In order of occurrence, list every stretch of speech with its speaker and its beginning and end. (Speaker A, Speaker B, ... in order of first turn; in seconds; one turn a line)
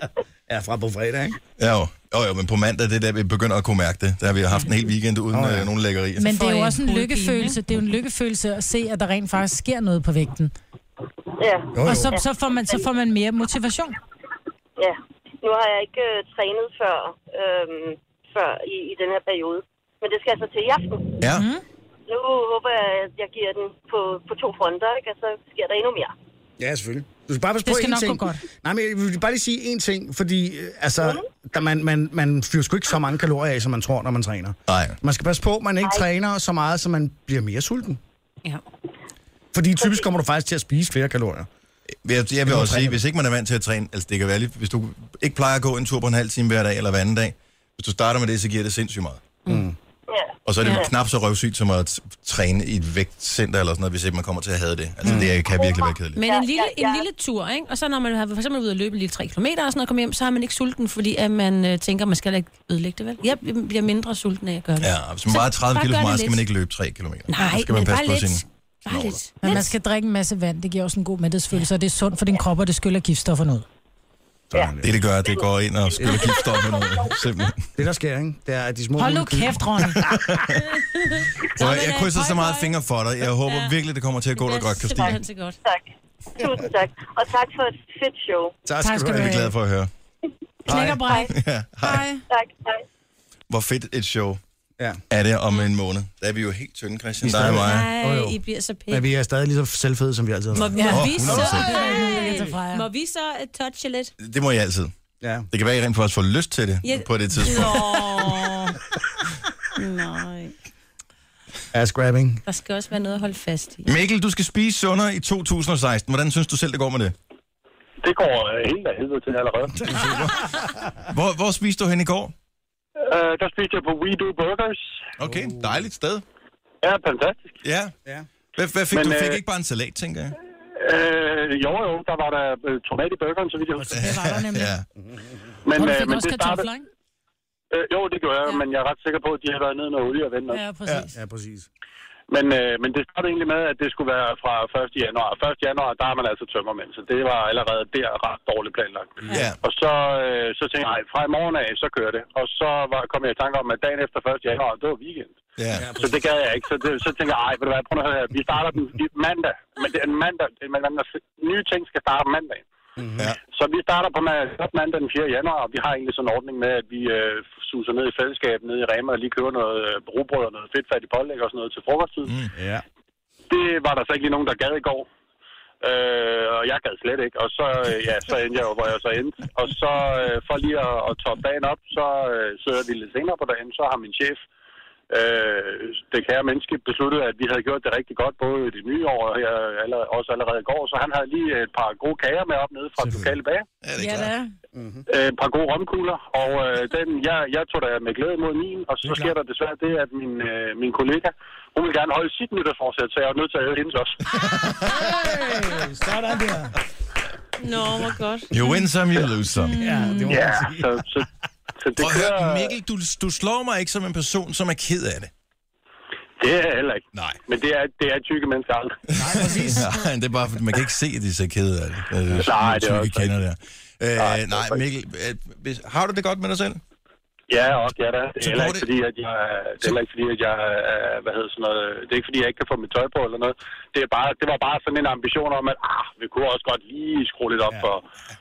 Speaker A: 0.5-1.4
Speaker B: 1.6-6.4
Speaker A: 5.3-5.7
Speaker C: 6.2-10.5
Speaker D: 6.4-7.6
Speaker E: 11.4-12.8
Speaker A: 11.7-12.1
Speaker C: 11.8-14.0
Speaker E: 14.8-21.3
Speaker B: 21.2-21.4
Speaker C: 21.3-21.6
Speaker E: 22.1-26.1
Speaker A: 26.6-38.0
Speaker C: 27.6-28.4
Speaker B: 34.7-35.0
Speaker A: 39.5-41.5
Speaker E: 39.8-40.0
Speaker B: 42.0-49.2
Speaker A: 42.4-43.0
Speaker A: 49.5-49.8
Speaker E: 50.1-50.9
Speaker B: 50.5-56.2
Speaker D: 50.6-50.9
Speaker A: 55.0-55.3
Speaker E: 55.5-57.0
Speaker D: 56.1-66.4
Speaker B: 64.8-69.2
Speaker D: 67.3-69.7
Speaker C: 69.4-73.6
Speaker A: 74.5-74.9
Speaker E: 74.5-75.5
Speaker B: 74.8-77.6
Speaker A: 76.0-76.4
Speaker E: 76.0-77.2
Speaker A: 77.8-80.4
Speaker C: 79.0-80.0
Speaker B: 80.0-80.6
Speaker D: 81.1-82.7
Speaker B: 81.5-85.2
Speaker D: 83.4-83.8
Speaker D: 84.3-85.6
Speaker E: 86.4-88.5
Speaker A: 88.6-89.5
Speaker C: 88.8-89.5
Speaker B: 89.1-89.9
Speaker A: 90.7-91.0
Speaker C: 90.7-91.3
Speaker B: 91.2-92.0
Speaker C: 91.8-92.2
Speaker E: 92.3-92.8
Speaker B: 93.5-94.4
Speaker B: 95.1-97.9
Speaker A: 97.2-98.4
Speaker D: 97.3-99.1
Speaker A: 98.9-102.2
Speaker D: 100.5-104.1
Speaker B: 100.6-101.7
Speaker C: 100.7-102.8
Speaker B: 104.2-104.9
Speaker A: 105.2-105.5
Speaker B: 105.5-107.9
Speaker D: 106.8-108.8
Speaker D: 109.7-110.5
Speaker A: 111.7-112.4
Speaker D: 112.5-113.9
Speaker B: 113.9-117.1
Speaker F: 118.0-120.0
Speaker A: 119.8-120.8
Speaker B: 119.9-120.5
Speaker B: 121.1-122.3
Speaker F: 123.0-124.8
Speaker B: 125.2-126.2
Speaker A: 125.2-125.8
Speaker F: 126.8-127.6
Speaker B: 127.6-127.9
Speaker B: 128.6-130.3
Speaker F: 128.9-129.4
Speaker F: 130.8-133.9
Speaker C: 133.8-134.7
Speaker B: 133.9-134.8
Speaker A: 134.9-135.5
Speaker F: 135.6-136.7
Speaker C: 135.7-136.8
Speaker F: 137.7-140.6
Speaker C: 140.5-141.1
Speaker A: 141.1-141.7
Speaker F: 142.3-155.4
Speaker B: 149.3-149.6
Speaker B: 155.6-155.9
Speaker A: 155.8-156.1
Speaker F: 155.9-162.6
Speaker A: 163.0-163.3
Speaker F: 163.5-172.3
Speaker A: 172.5-172.8
Speaker F: 173.5-175.1
Speaker F: 175.8-184.4
Speaker F: 185.1-193.6
Speaker B: 193.0-193.3
Speaker B: 193.8-194.3
Speaker C: 194.0-194.5
Speaker A: 194.7-195.0
Speaker F: 195.1-204.2
Speaker B: 204.3-205.2
Speaker A: 204.9-206.7
Speaker D: 207.6-208.8
Speaker B: 208.5-209.9
Speaker A: 209.8-211.0
Speaker C: 209.8-210.3
Speaker F: 210.3-211.3
Speaker F: 211.8-212.7
Speaker B: 212.0-215.3
Speaker F: 216.4-219.0
Speaker B: 217.1-217.4
Speaker B: 219.1-226.8
Speaker A: 219.2-219.8
Speaker F: 222.4-223.3
Speaker F: 224.2-224.8
Speaker F: 227.5-238.0
Speaker B: 228.4-228.9